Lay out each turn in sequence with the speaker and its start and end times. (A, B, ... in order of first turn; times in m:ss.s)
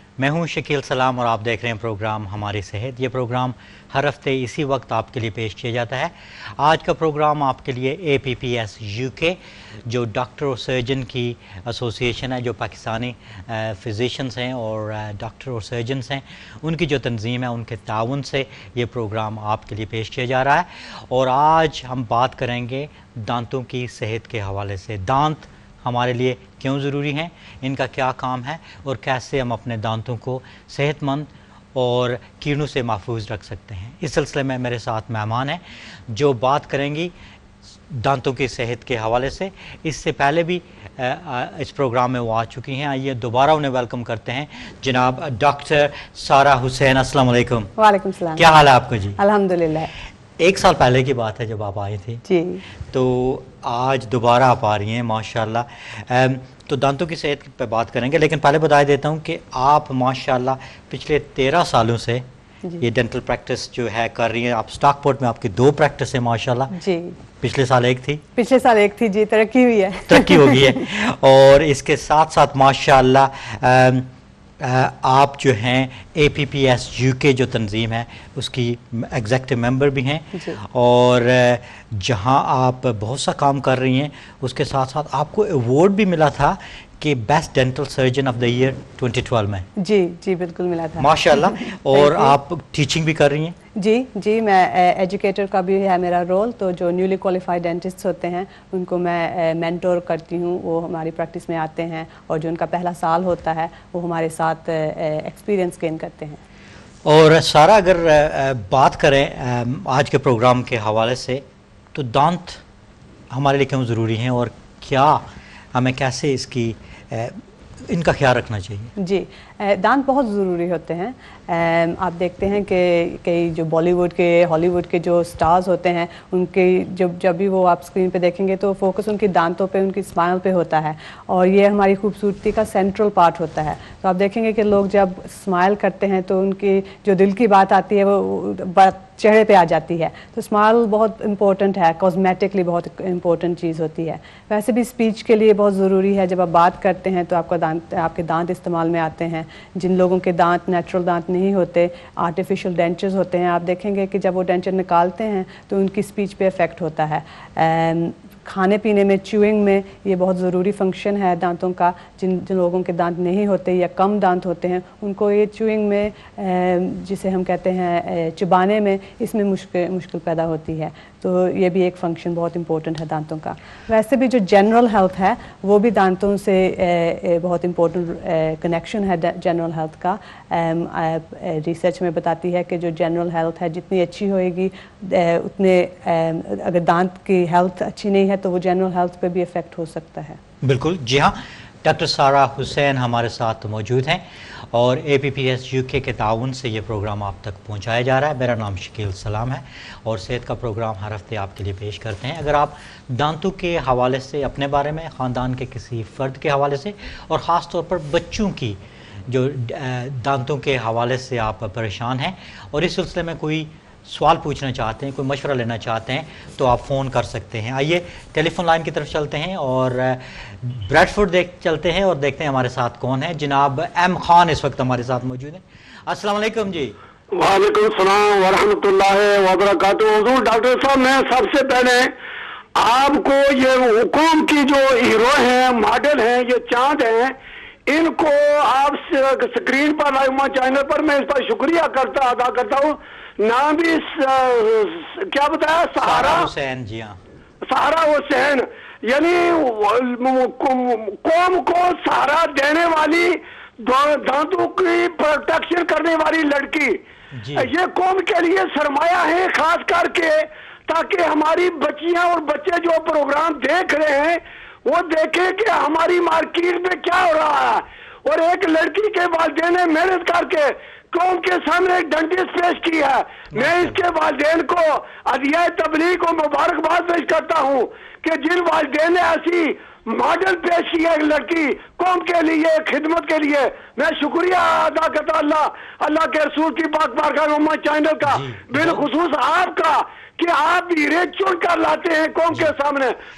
0:00.2-0:37.1 A
0:37.9-0:47.7 A
0:47.8-0:48.6 B
0:48.4-0:49.2 A
0:49.2-0:49.9 B
0:50.4-0:52.2 A
0:52.2-0:52.6 B
0:52.9-1:02.2 A
1:02.8-1:06.7 A
1:06.7-1:07.2 B
1:07.4-1:08.2 A
1:08.4-1:10.8 B
1:10.1-1:14.1 A
1:14.6-1:29.7 A
1:20.3-1:20.6 B
1:29.8-1:32.4 B
1:31.0-1:33.6 A
1:33.8-1:46.4 B
1:47.0-1:51.4 A
1:51.9-1:52.6 A
1:53.3-1:58.9 A
1:59.0-3:10.4 B
3:10.6-3:47.0 A
3:47.3-3:52.1 C
3:52.8-3:57.3 C
3:57.9-4:06.5 C
4:06.0-4:07.2 A
4:07.7-4:17.0 C
4:17.3-4:17.7 A
4:17.5-4:53.2 C
4:33.5-4:34.0 A
4:48.2-4:49.1 A